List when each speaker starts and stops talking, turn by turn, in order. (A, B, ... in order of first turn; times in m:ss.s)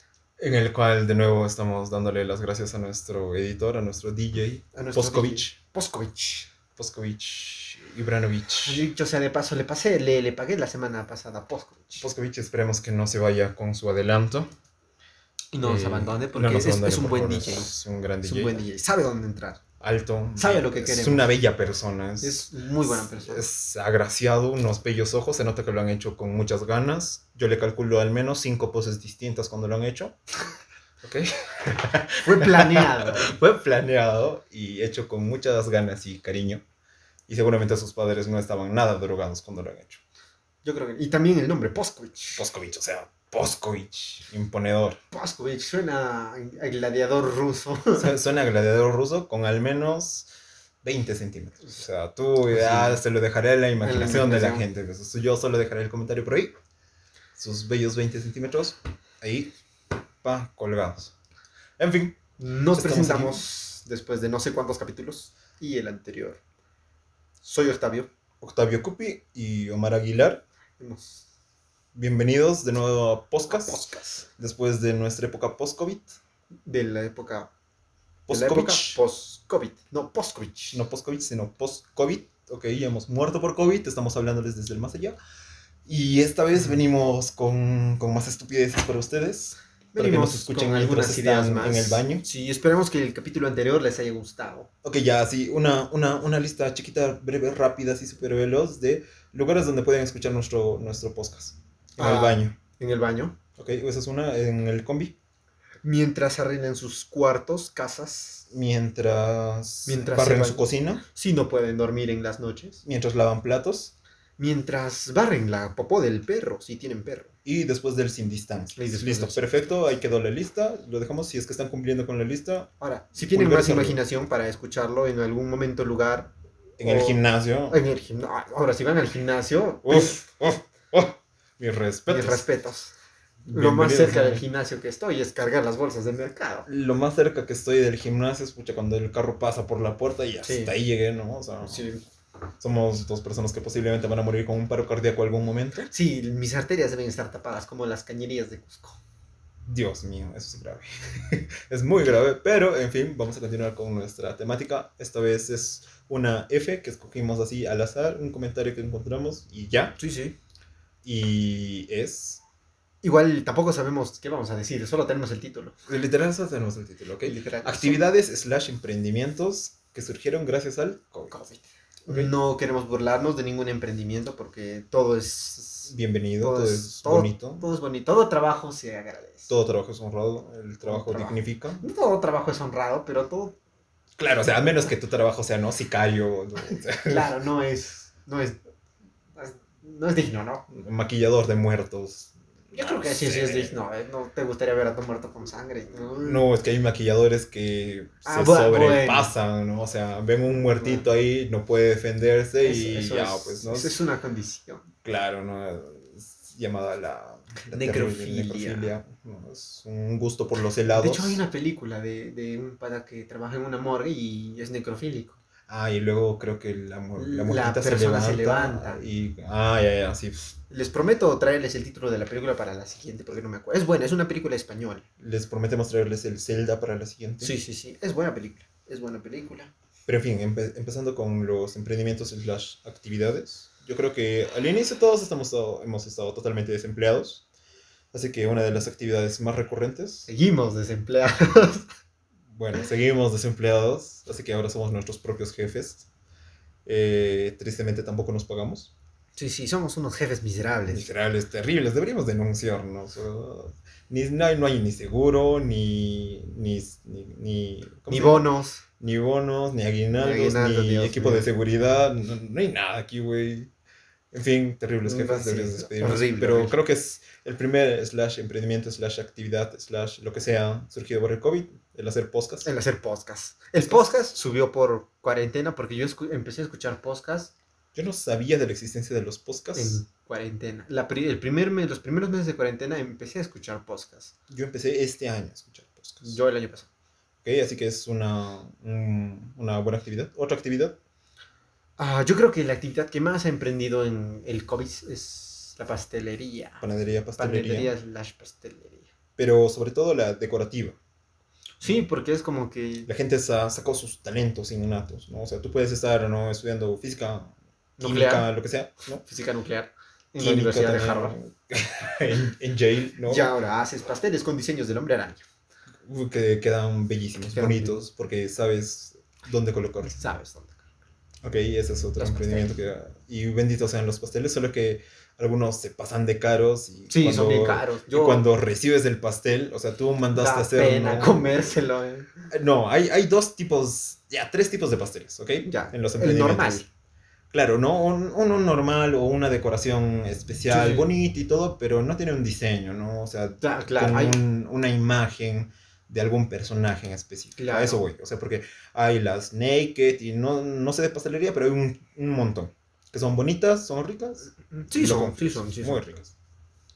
0:00.4-0:05.5 A
0:04.7-0:06.5 B
0:06.8-0:08.8 A
0:08.6-0:12.0 B
0:12.0-0:14.5 A
0:15.5-0:17.7 B
0:15.6-0:18.6 A
0:18.2-0:19.6 B
0:19.8-0:30.1 A
0:20.4-0:21.3 B
0:22.2-0:23.4 B
0:31.0-0:36.6 A
0:32.2-0:33.3 B
0:37.3-0:40.0 A
0:40.6-0:42.4 B
0:42.4-0:45.0 A
0:45.1-0:48.1 B
0:48.0-0:50.3 A
0:50.8-0:56.5 A
0:52.5-0:53.0 B
0:53.8-0:54.6 B
0:57.3-0:59.5 A
1:00.2-1:01.1 A
1:01.8-1:02.2 A
1:02.4-1:06.4 B
1:02.7-1:03.4 A
1:07.4-1:08.1 B
1:08.4-1:10.4 A
1:10.8-1:11.2 B
1:11.9-1:13.8 A
1:13.5-1:14.2 B
1:14.4-1:16.2 A
1:16.6-1:17.5 B
1:18.3-1:19.0 A
1:18.3-1:20.8 B
1:20.7-1:25.2 A
1:25.8-1:32.2 A
1:29.9-1:34.7 B
1:34.8-1:42.5 A
1:42.0-1:43.4 B
1:43.6-1:45.1 A
1:45.8-1:48.4 B
1:48.5-1:51.0 A
1:49.8-1:52.8 B
1:52.8-1:53.9 A
1:54.4-1:57.3 B
1:57.4-2:04.0 A
1:58.8-1:59.6 B
2:02.8-2:10.2 B
2:06.8-2:07.8 A
2:09.8-2:12.4 A
2:12.1-2:12.9 B
2:13.4-2:14.4 A
2:13.5-2:16.7 B
2:16.6-2:21.9 A
2:20.4-2:20.7 B
2:21.6-2:22.0 B
2:22.6-2:25.9 A
2:25.9-2:29.0 B
2:29.6-2:40.0 A
2:40.0-2:40.4 B
2:41.0-2:42.4 A
2:43.0-2:45.8 B
2:45.9-2:51.3 A
2:47.2-2:48.0 B
2:51.3-2:59.5 B
2:52.1-2:52.3 A
2:55.9-2:57.6 A
2:59.5-3:01.8 A
3:00.8-3:03.6 B
3:04.2-3:07.3 A
3:07.0-3:08.6 B
3:09.4-3:10.6 B
3:10.7-3:13.7 A
3:12.7-3:16.4 B
3:16.2-3:23.9 A
3:18.2-3:19.3 B
3:20.7-3:21.0 B
3:22.6-3:24.8 B
3:25.0-3:31.4 A
3:27.7-3:28.9 B
3:30.9-3:35.4 B
3:35.7-3:40.5 A
3:37.2-3:39.0 B
3:40.7-3:45.0 B
3:45.2-3:47.5 A
3:47.4-3:49.7 B
3:50.0-3:57.4 A
3:58.1-4:00.3 A
4:00.3-4:01.9 B
4:02.5-4:06.1 A
4:06.8-4:08.9 A
4:09.4-4:11.1 B
4:10.9-4:18.5 A
4:18.1-4:18.8 B
4:19.0-4:23.7 A
4:20.1-4:21.5 B
4:24.3-4:32.7 A
4:25.0-4:26.8 B
4:32.6-4:37.5 B
4:33.8-4:34.2 A
4:37.9-4:40.0 A
4:39.7-4:44.3 B
4:44.5-4:46.4 A
4:46.2-4:46.9 B
4:47.4-4:51.0 A
4:52.0-4:59.1 B
4:56.8-4:57.9 A
4:59.4-5:01.0 A
5:01.8-5:03.1 B
5:03.1-5:09.2 A
5:08.0-5:08.5 B
5:09.2-5:11.3 B
5:10.4-5:13.5 A
5:13.3-5:15.4 B
5:16.0-5:20.2 A
5:17.5-5:18.0 B
5:20.0-5:20.8 B
5:21.4-5:31.7 A
5:22.2-5:22.7 B
5:27.1-5:28.4 B
5:30.3-5:32.3 B
5:32.5-5:36.8 A
5:35.6-5:36.8 B
5:37.5-5:56.3 A
5:40.7-5:41.1 B
5:43.6-5:44.4 B
5:47.6-5:48.0 B
5:54.7-5:56.1 B